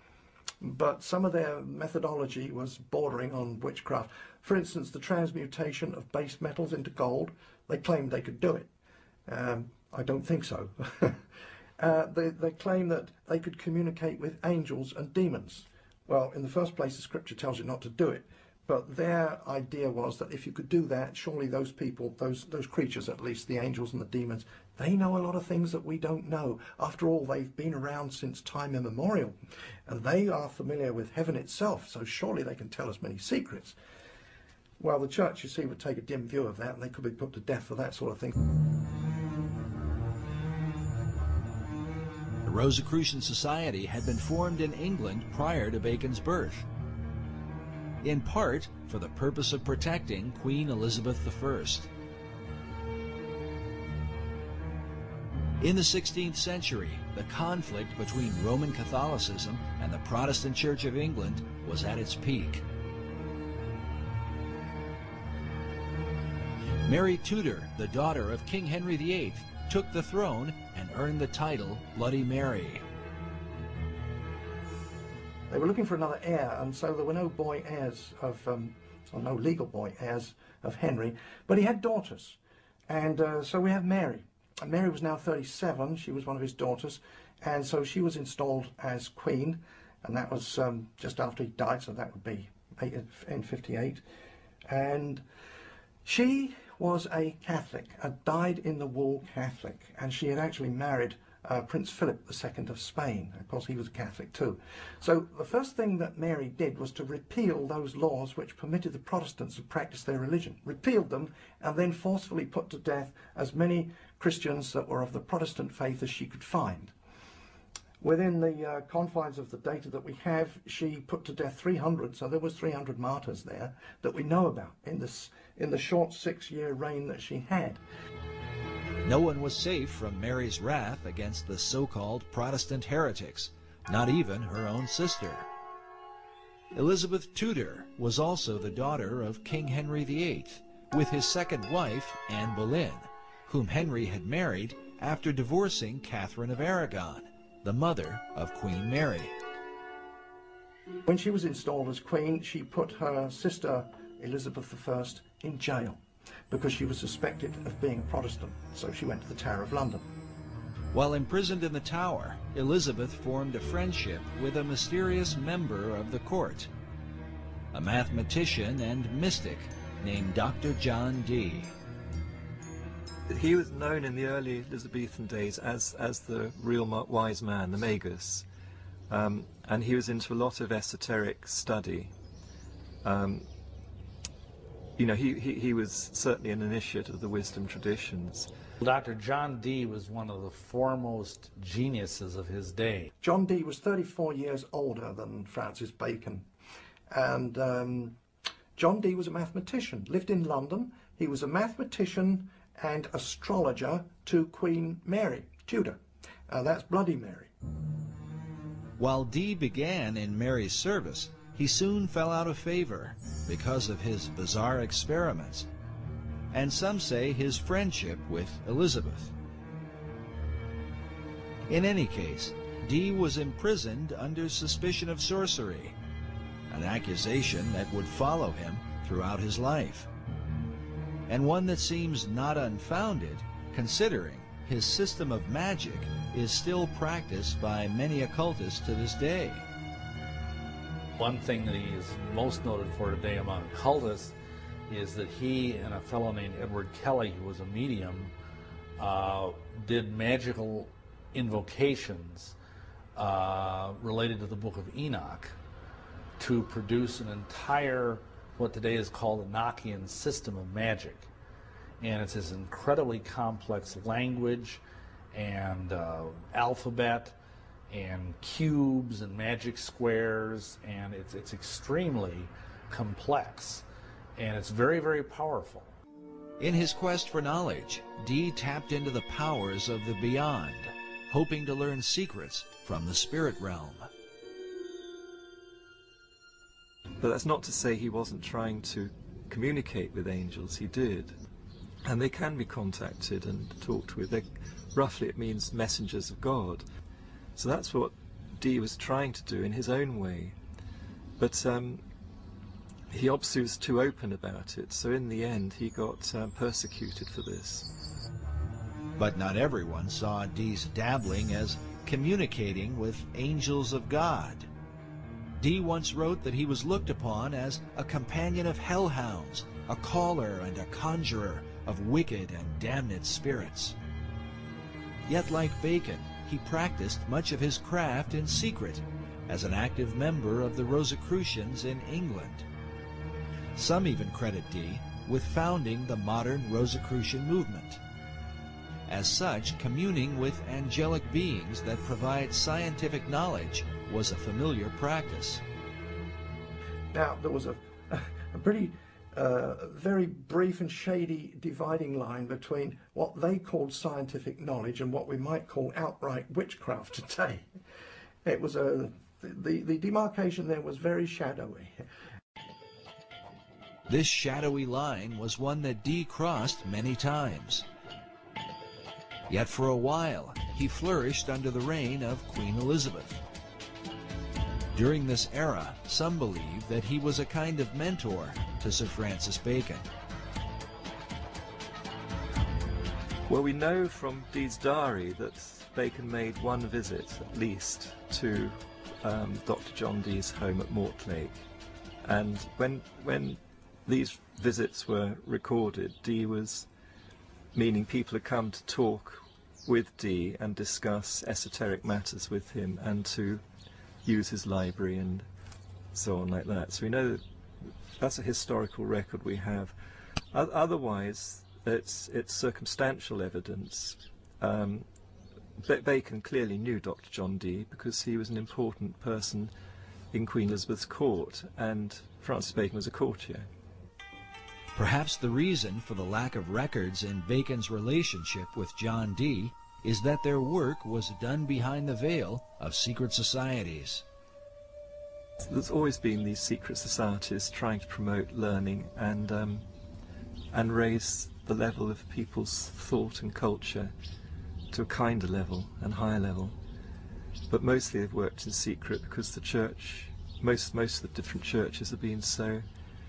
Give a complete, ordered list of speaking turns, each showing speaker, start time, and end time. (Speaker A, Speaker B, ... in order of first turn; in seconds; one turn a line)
Speaker A: 0.6-8.7
Speaker A: 9.2-11.2
Speaker A: 11.8-29.4
Speaker A: 29.9-33.8
Speaker A: 34.8-38.3
Speaker B: 42.5-46.7
Speaker B: 48.0-51.9
Speaker B: 55.6-62.6
Speaker B: 66.8-72.8
Speaker A: 75.5-94.0
Speaker A: 94.7-95.2
Speaker A: 96.0-116.9
Speaker A: 118.0-127.8
Speaker B: 129.0-135.5
Speaker B: 136.7-149.3
Speaker A: 151.1-160.1
Speaker B: 160.9-166.7
Speaker B: 167.7-171.7
Speaker C: 173.3-178.4
Speaker C: 179.1-182.1
Speaker C: 183.0-183.5
Speaker C: 185.0-188.5
Speaker D: 188.8-193.1
Speaker A: 193.2-196.5
Speaker A: 197.1-198.2
Speaker A: 198.8-207.5
Speaker B: 209.0-215.7
Speaker B: 216.5-219.3
Speaker B: 221.7-225.9
Speaker B: 226.7-230.1
Speaker B: 231.3-239.7
Speaker D: 241.2-248.3
Speaker D: 249.0-252.6
Speaker D: 253.2-255.6
Speaker D: 256.4-261.3
Speaker D: 262.0-275.9
Speaker B: 276.6-284.1
Speaker C: 287.2-291.4
Speaker C: 292.0-296.8
Speaker C: 297.6-300.6
Speaker C: 301.4-302.0
Speaker C: 303.1-307.9
Speaker B: 309.2-314.7
Speaker B: 315.6-324.0
Speaker B: 325.3-332.6
Speaker B: 333.7-338.0
Speaker B: 339.1-345.6
Speaker A: 347.1-357.7
Speaker A: 358.4-362.0
Speaker B: 364.1-367.9
Speaker B: 369.5-373.4
Speaker B: 374.9-380.1
Speaker C: 383.5-391.6
Speaker C: 392.2-396.9
Speaker C: 397.7-403.6
Speaker C: 404.2-405.5
Speaker C: 406.1-407.4
Speaker C: 408.2-409.9
Speaker C: 410.5-415.1
Speaker C: 415.8-419.7
Speaker C: 420.3-423.7
Speaker B: 424.9-434.2
Speaker C: 435.7-439.9
Speaker C: 440.7-444.1
Speaker C: 444.9-446.8
Speaker C: 447.7-452.8